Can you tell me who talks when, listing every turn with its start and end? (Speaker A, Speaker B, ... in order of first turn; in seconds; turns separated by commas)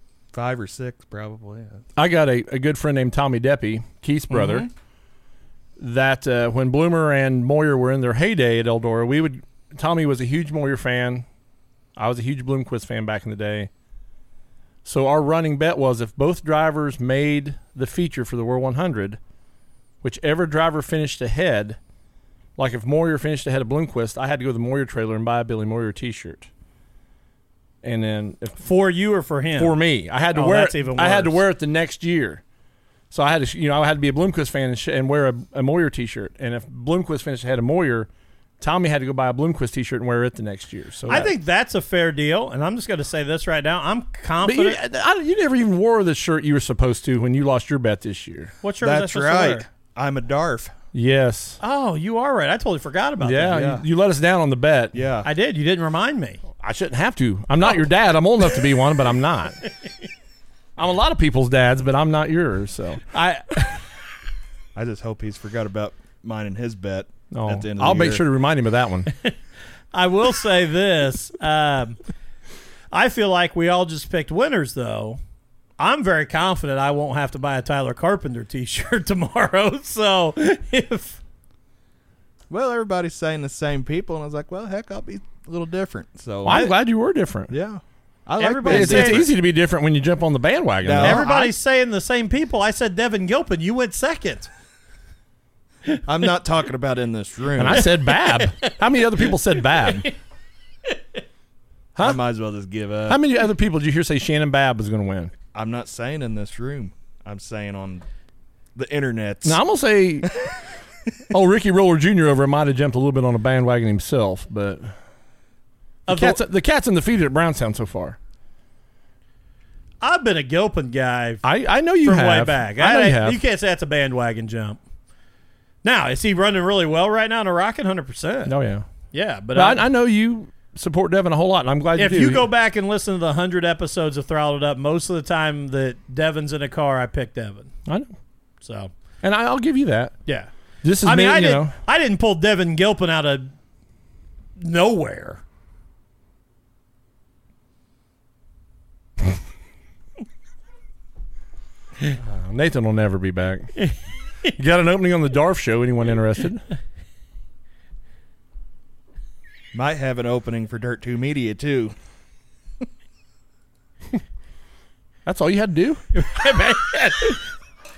Speaker A: 0.3-1.8, Speaker B: 1.9-4.7, Speaker A: 4.3-4.7, Speaker B: 5.8-11.3, Speaker B: 11.9-13.7, Speaker B: 14.8-19.2, Speaker B: 20.0-21.8, Speaker B: 22.6-26.5, Speaker B: 27.8-28.6, Speaker C: 28.6-29.8, Speaker B: 29.6-32.4, Speaker C: 30.3-31.4, Speaker B: 33.1-38.1, Speaker B: 38.6-41.3, Speaker C: 41.1-44.8, Speaker B: 44.4-48.5, Speaker C: 48.6-49.6, Speaker A: 48.8-50.7, Speaker B: 50.9-51.6, Speaker C: 51.6-53.6, Speaker B: 53.2-55.0, Speaker A: 53.5-53.8, Speaker A: 54.9-55.3, Speaker C: 55.2-56.4, Speaker B: 56.6-59.6, Speaker B: 60.8-63.0, Speaker C: 63.1-63.8, Speaker A: 64.8-68.2, Speaker B: 67.3-69.1, Speaker C: 69.9-72.0, Speaker C: 72.9-75.2, Speaker C: 75.8-81.2, Speaker A: 82.5-86.7, Speaker B: 86.4-87.5, Speaker C: 86.5-86.7, Speaker A: 87.5-89.3, Speaker C: 88.4-89.3, Speaker B: 88.6-91.4, Speaker A: 90.8-91.5, Speaker C: 91.0-94.5, Speaker A: 96.1-98.0, Speaker B: 97.6-100.1, Speaker C: 97.8-98.8, Speaker C: 99.8-100.1, Speaker A: 102.0-103.2, Speaker B: 103.1-105.3, Speaker A: 105.5-108.0, Speaker A: 108.8-109.6, Speaker B: 109.4-110.3, Speaker B: 111.3-115.0, Speaker C: 116.1-116.4, Speaker B: 116.1-118.2, Speaker C: 120.0-121.4, Speaker B: 121.4-123.4, Speaker C: 122.0-124.8, Speaker C: 125.8-128.6, Speaker B: 128.4-128.9, Speaker C: 129.1-129.9, Speaker B: 129.5-132.5, Speaker C: 131.9-137.7, Speaker B: 137.9-138.1, Speaker C: 138.6-138.9, Speaker B: 139.2-140.2, Speaker C: 140.3-140.5, Speaker B: 140.8-141.8, Speaker C: 141.0-143.5, Speaker C: 144.6-145.4, Speaker B: 152.2-153.8, Speaker B: 154.6-156.6, Speaker A: 159.7-161.9, Speaker B: 165.3-166.0, Speaker C: 166.1-167.4